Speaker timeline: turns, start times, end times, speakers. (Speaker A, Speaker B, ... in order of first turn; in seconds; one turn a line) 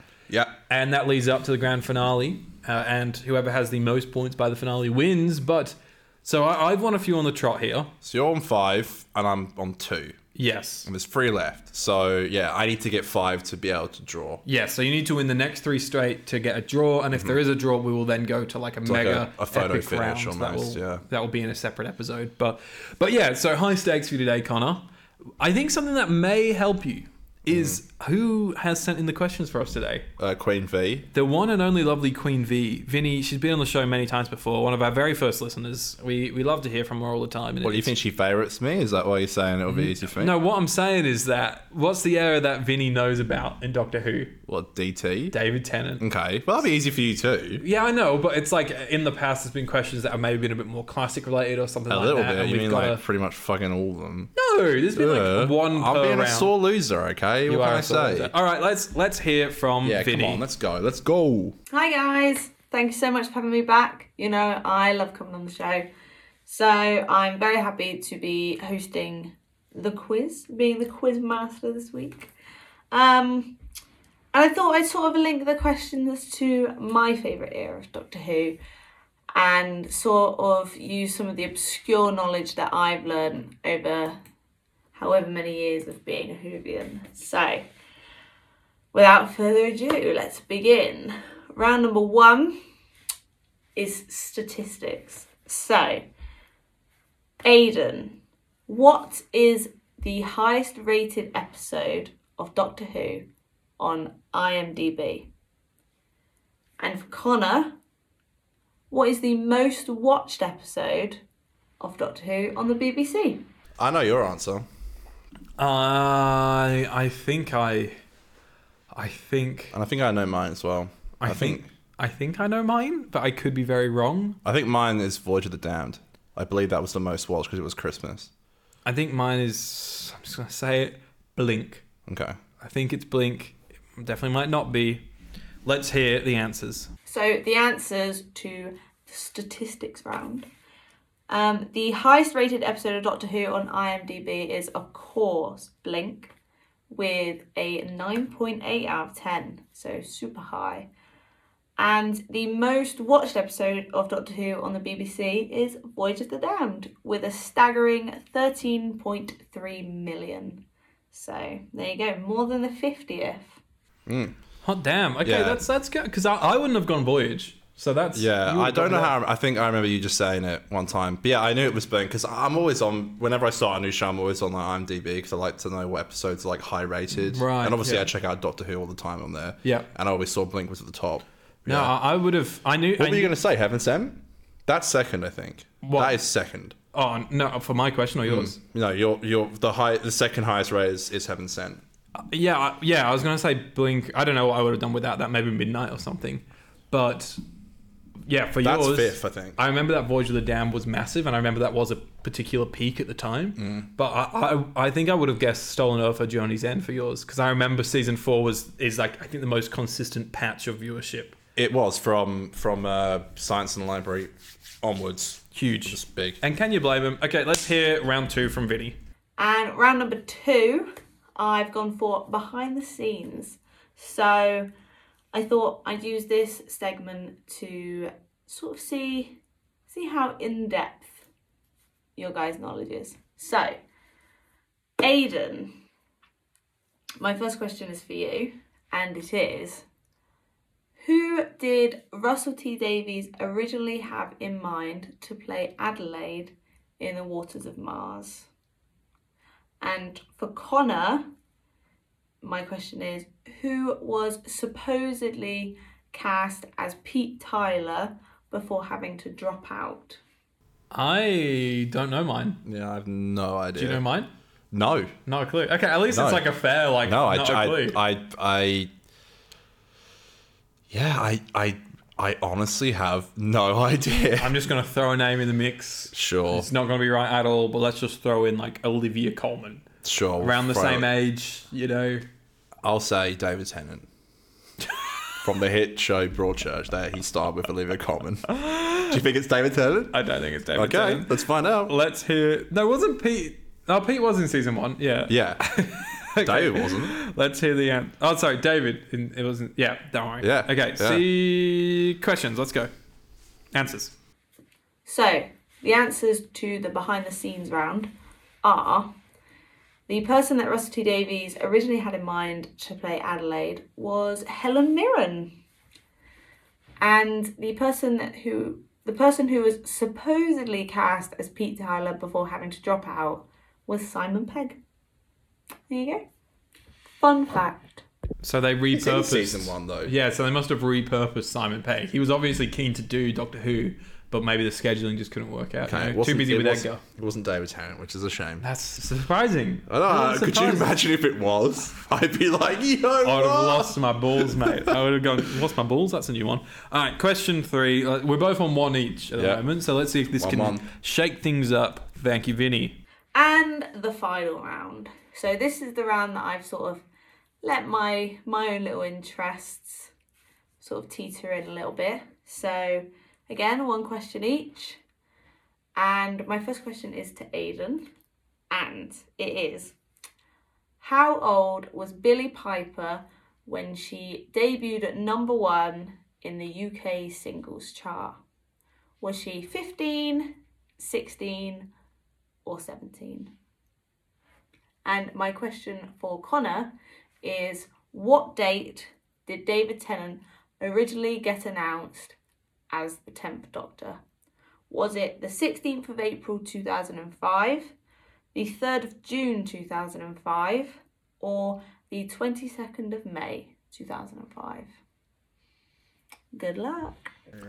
Speaker A: 0.3-0.5
Speaker B: 0.7-7.9
Speaker A: 8.0-10.2
Speaker B: 10.3-10.9
Speaker A: 10.8-14.4
Speaker B: 14.4-24.8
Speaker A: 17.1-17.4
Speaker A: 18.8-21.0
Speaker B: 25.4-30.1
Speaker A: 27.5-27.8
Speaker A: 30.2-31.1
Speaker B: 31.1-37.9
Speaker A: 37.6-40.3
Speaker B: 39.7-44.4
Speaker A: 44.5-45.3
Speaker B: 45.3-46.0
Speaker A: 46.0-47.6
Speaker B: 47.6-53.0
Speaker A: 51.9-54.3
Speaker B: 54.3-56.5
Speaker A: 54.9-58.3
Speaker B: 57.5-60.4
Speaker A: 59.8-61.5
Speaker C: 61.7-65.9
Speaker C: 66.5-72.3
Speaker C: 72.9-73.6
Speaker C: 74.3-78.6
Speaker C: 79.3-84.2
Speaker C: 84.9-87.7
Speaker C: 88.9-92.5
Speaker C: 93.8-96.1
Speaker C: 97.4-103.2
Speaker C: 103.8-105.3
Speaker C: 106.8-107.8
Speaker C: 108.9-111.2
Speaker C: 111.8-113.4
Speaker A: 113.8-114.7
Speaker B: 115.6-118.0
Speaker B: 118.9-119.8
Speaker A: 119.7-121.7
Speaker B: 121.2-124.4
Speaker A: 124.4-128.3
Speaker B: 128.8-131.8
Speaker A: 132.1-132.4
Speaker B: 132.6-135.1
Speaker B: 135.6-136.9
Speaker C: 137.1-140.5
Speaker C: 141.3-146.3
Speaker C: 146.9-150.9
Speaker C: 151.8-163.6
Speaker A: 164.1-164.3
Speaker B: 164.6-169.2
Speaker A: 165.2-165.6
Speaker A: 168.1-181.9
Speaker B: 177.3-178.1
Speaker B: 181.7-183.3
Speaker A: 183.0-186.8
Speaker B: 185.8-186.2
Speaker B: 186.9-188.6
Speaker A: 188.2-191.8
Speaker B: 192.2-197.4
Speaker B: 198.3-211.3
Speaker A: 198.6-199.6
Speaker A: 203.6-203.8
Speaker A: 211.6-216.4
Speaker B: 215.5-219.0
Speaker C: 219.4-224.7
Speaker C: 225.3-231.2
Speaker C: 232.2-233.8
Speaker C: 235.0-235.8
Speaker C: 237.2-239.8
Speaker C: 241.0-248.5
Speaker C: 249.8-251.3
Speaker C: 252.4-260.2
Speaker B: 260.9-262.6
Speaker A: 262.6-264.0
Speaker B: 263.8-264.3
Speaker A: 264.7-265.1
Speaker B: 265.2-268.0
Speaker A: 266.1-266.5
Speaker A: 267.0-268.9
Speaker A: 270.9-274.6
Speaker B: 274.4-279.8
Speaker A: 276.1-276.7
Speaker A: 280.0-281.1
Speaker B: 280.4-282.2
Speaker A: 282.8-284.1
Speaker A: 285.4-290.2
Speaker B: 288.5-289.1
Speaker B: 290.1-302.9
Speaker A: 290.8-291.9
Speaker A: 295.3-295.6
Speaker A: 296.4-297.1
Speaker A: 300.4-301.2
Speaker B: 303.7-304.1
Speaker C: 305.1-308.1
Speaker C: 308.6-309.1
Speaker C: 310.1-315.5
Speaker C: 317.0-324.8
Speaker C: 325.9-326.2
Speaker C: 327.2-328.0
Speaker B: 328.4-337.0
Speaker A: 328.9-330.1
Speaker A: 335.9-338.6
Speaker B: 338.6-340.9
Speaker A: 339.9-344.9
Speaker B: 343.2-353.0
Speaker A: 349.4-349.6
Speaker A: 350.4-350.8
Speaker C: 353.3-357.0
Speaker C: 357.6-360.1
Speaker C: 360.8-365.0
Speaker C: 366.0-368.1
Speaker C: 368.7-369.9
Speaker C: 371.0-378.4
Speaker C: 379.2-381.9
Speaker C: 382.6-383.5
Speaker C: 385.0-392.4
Speaker C: 392.9-394.2
Speaker C: 394.9-397.9
Speaker C: 398.5-404.9
Speaker C: 406.5-407.3